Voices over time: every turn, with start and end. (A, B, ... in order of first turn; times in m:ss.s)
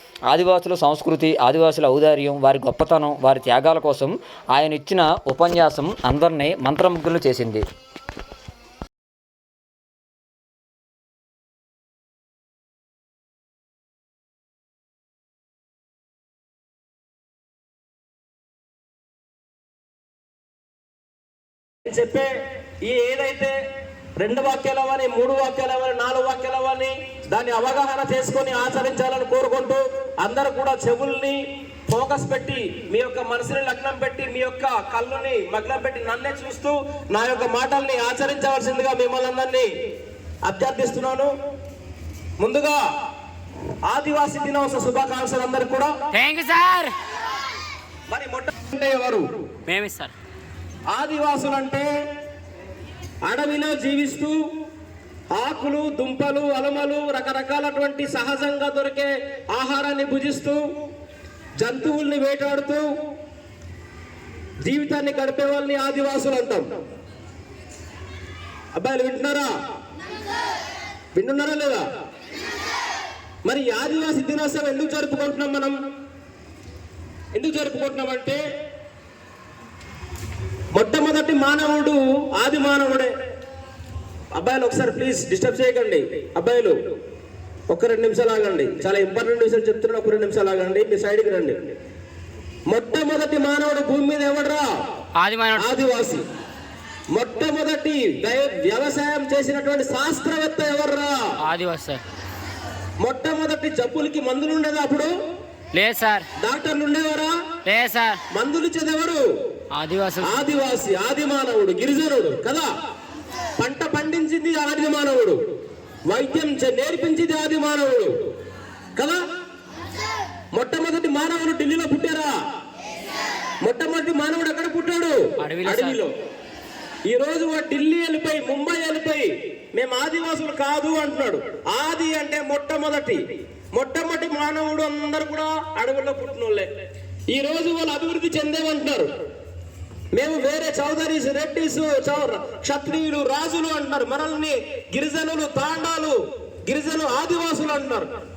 0:00.3-0:07.6 A
0:21.8-0:22.3 B
0:22.8-0:23.6 B
0:24.2-0:39.7 B
0:40.4-0:41.3 B
0:42.4-0:42.8 B
0:43.9-0:45.9 B
0:46.1-0:46.9 C
0:48.1-0:49.2 B
0:49.7-0:50.1 C
0:50.9-0:51.9 B
0:53.2-0:54.4 B
0:55.3-1:00.6 B
1:01.6-1:02.8 B
1:04.6-1:06.6 B
1:08.7-1:09.5 B
1:11.1-1:11.8 B
1:13.4-1:15.7 B
1:17.3-1:18.4 B
1:20.7-1:23.1 B
1:24.3-1:26.8 B
1:27.7-1:31.7 B
1:32.7-1:34.6 B
1:35.2-1:35.7 C
1:35.6-1:36.2 B
1:37.1-1:41.2 B
1:41.4-1:42.0 C
1:43.0-1:45.1 B
1:45.7-1:46.2 C
1:46.4-1:47.3 B
1:47.6-1:48.2 C
1:48.3-1:49.2 B
1:49.7-1:50.4 C
1:50.2-1:52.7 B
1:53.6-1:55.4 B
1:56.1-1:58.1 B
2:00.5-2:02.3 B
2:03.6-2:06.1 B
2:05.4-2:06.0 C
2:07.1-2:13.2 B
2:13.7-2:16.7 B
2:17.3-2:19.1 B
2:20.1-2:26.1 B
2:26.7-2:28.1 B